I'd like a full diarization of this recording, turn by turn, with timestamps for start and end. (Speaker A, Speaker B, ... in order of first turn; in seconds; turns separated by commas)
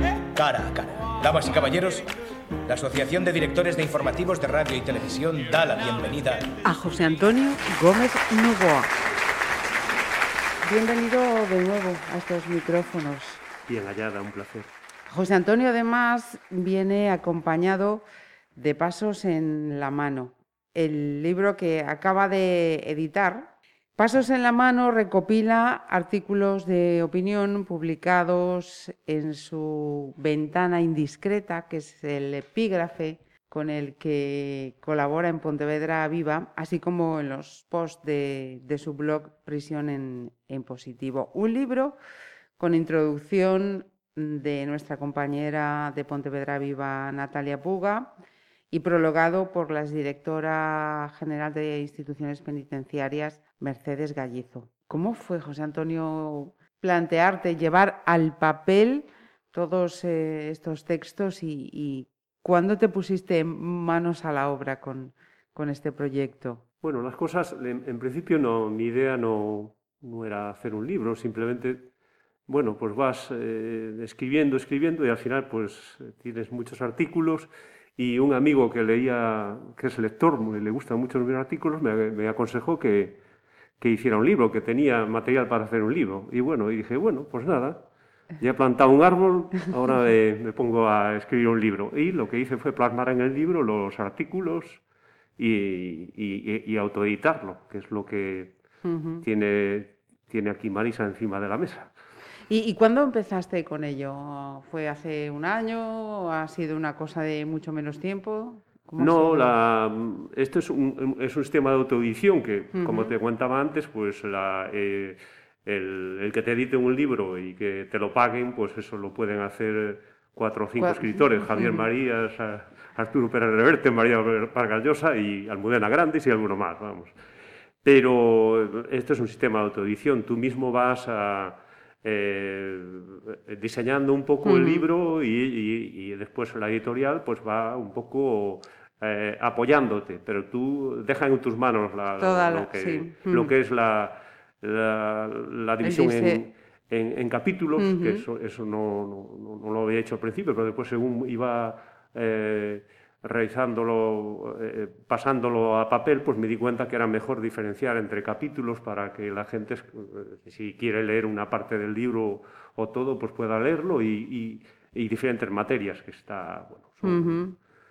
Speaker A: 0.3-2.1, Speaker A: 2.7-6.5, Speaker B: 6.6-8.9, Speaker B: 10.7-13.4, Speaker C: 13.7-14.7, Speaker B: 15.1-18.0, Speaker B: 18.6-42.0, Speaker B: 42.6-48.1, Speaker B: 48.7-66.6, Speaker C: 66.8-71.9, Speaker C: 72.5-83.2, Speaker C: 83.8-87.8, Speaker C: 88.4-94.8, Speaker C: 95.4-98.5, Speaker B: 98.8-99.2, Speaker C: 99.2-101.9, Speaker B: 102.5-109.5, Speaker C: 109.0-127.1, Speaker B: 112.7-113.1, Speaker B: 120.8-121.9, Speaker C: 127.8-167.4, Speaker B: 134.4-134.8, Speaker B: 142.2-143.5, Speaker B: 145.8-146.4, Speaker B: 147.8-148.2, Speaker B: 167.0-167.6